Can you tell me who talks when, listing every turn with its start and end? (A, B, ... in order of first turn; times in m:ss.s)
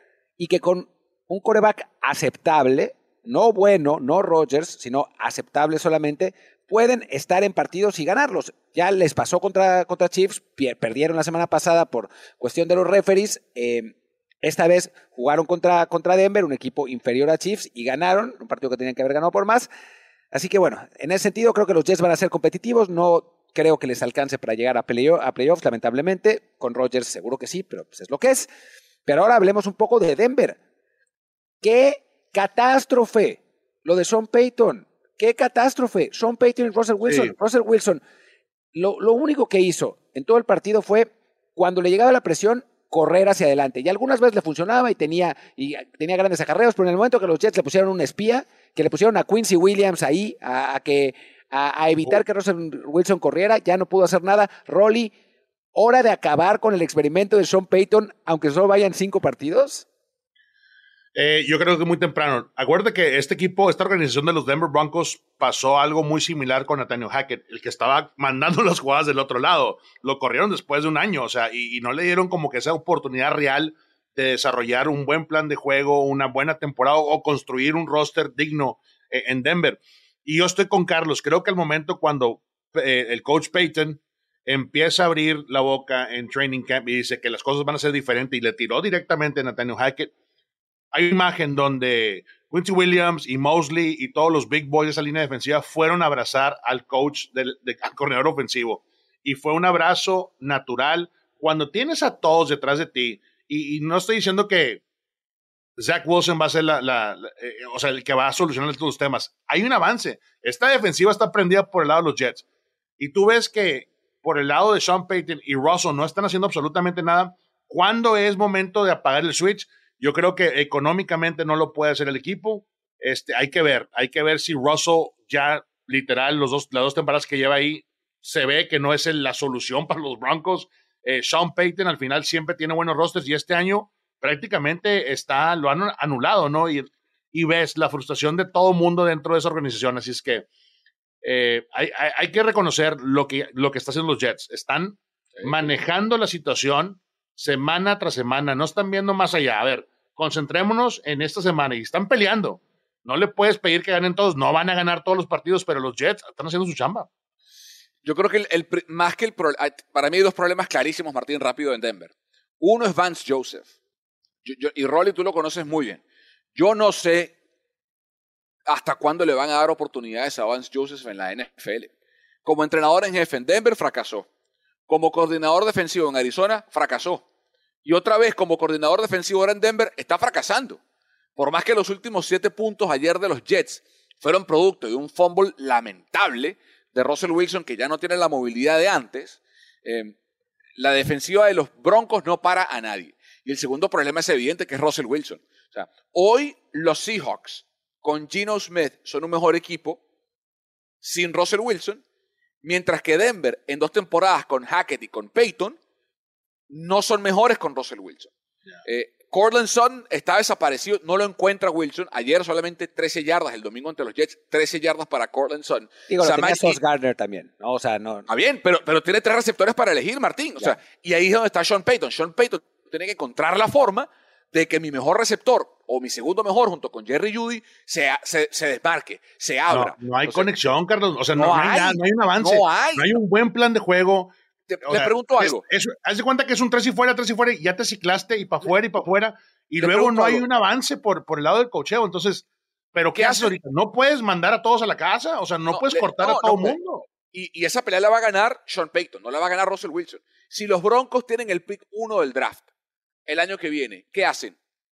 0:00.4-0:19.7 A
0:20.3-0:28.5 A
0:29.1-0:30.6 A
0:31.6-0:38.0 A
0:37.1-0:37.3 B
0:38.7-0:55.1 A
0:55.8-0:59.9 A
1:01.2-1:30.1 B
1:30.9-1:44.8 B
1:45.8-1:52.4 B
1:53.0-2:20.5 B
2:21.2-2:37.1 B
2:25.4-2:25.6 C
2:38.0-2:43.7 C
2:44.4-2:46.0 C
2:46.6-2:47.4 C
2:48.7-2:51.9 C
2:52.4-2:54.3 C
2:54.9-2:57.2 C
2:57.8-3:00.8 C
3:01.4-3:10.2 C
3:10.8-3:20.0 C
3:21.0-3:22.0 C
3:22.6-3:25.8 C
3:26.7-3:28.3 C
3:28.8-3:36.8 C
3:36.1-3:38.3 A
3:38.3-3:50.5 C
3:49.7-3:54.3 B
3:51.4-3:53.1 C
3:54.7-3:55.6 C
3:54.9-4:07.0 B
3:59.8-4:00.4 C
4:03.2-4:03.5 C
4:05.7-4:12.6 C
4:13.3-4:14.6 C